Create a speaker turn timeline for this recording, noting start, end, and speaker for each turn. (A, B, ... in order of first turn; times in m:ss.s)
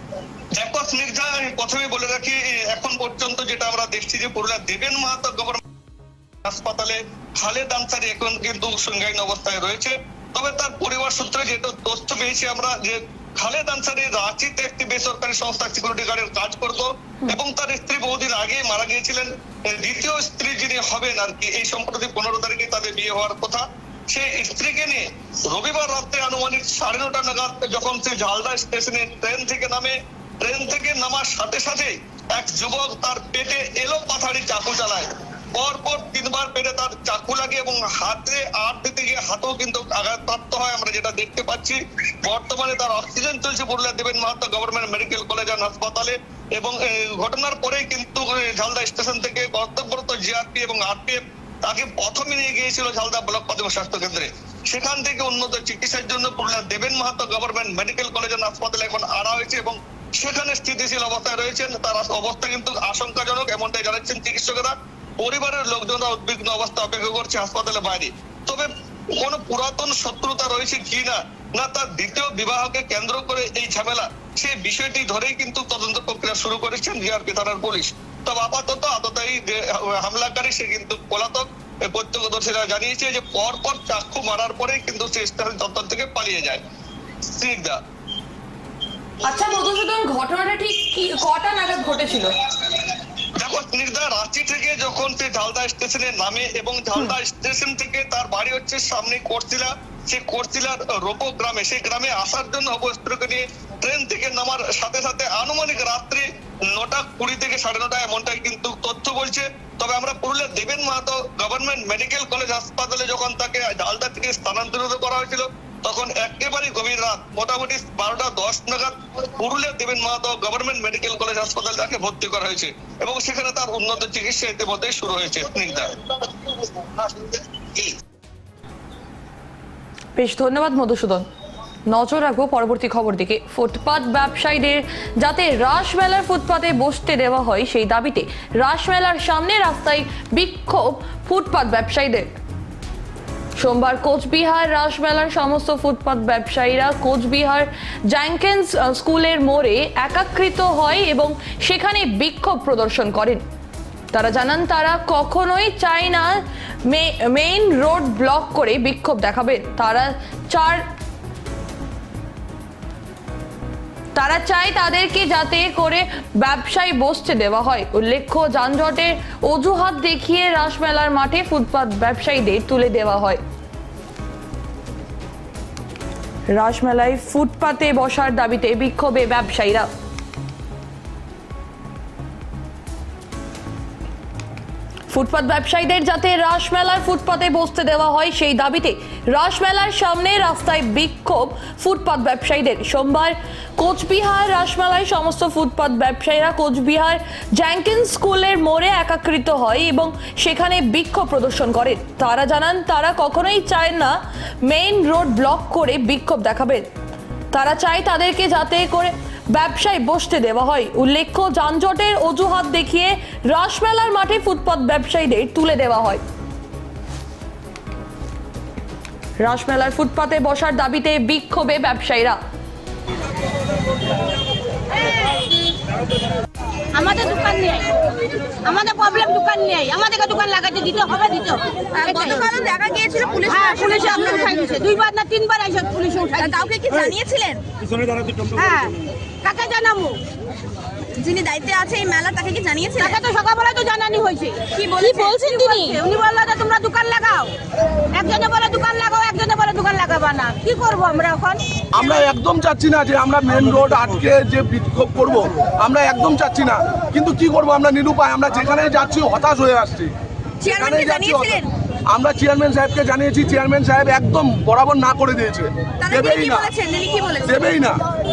0:00.6-0:05.6 A
0:06.4-1:26.6 A
1:27.4-1:27.8 A
1:29.2-1:32.3 B
1:33.4-2:07.9 A
2:10.2-2:11.2 B
2:11.9-2:22.3 B
2:23.6-2:33.4 B
2:34.1-2:40.8 B
2:44.1-2:53.4 B
2:56.5-2:59.9 B
3:05.1-3:26.8 B
3:27.5-3:36.2 B
3:39.4-3:42.4 B
3:46.9-3:47.8 C
3:48.6-3:57.2 C
3:52.0-3:54.3 D
3:56.5-3:57.6 D
3:58.6-3:58.9 C
3:59.4-4:00.2 C
4:01.3-4:03.3 D
4:01.4-4:01.8 C
4:02.9-4:07.5 C
4:04.8-4:06.0 D
4:08.1-4:11.6 C
4:11.9-4:20.1 E
4:20.7-4:26.7 E
4:20.8-4:21.2 C
4:26.2-4:26.7 C
4:26.7-4:27.3 D
4:27.4-4:28.0 E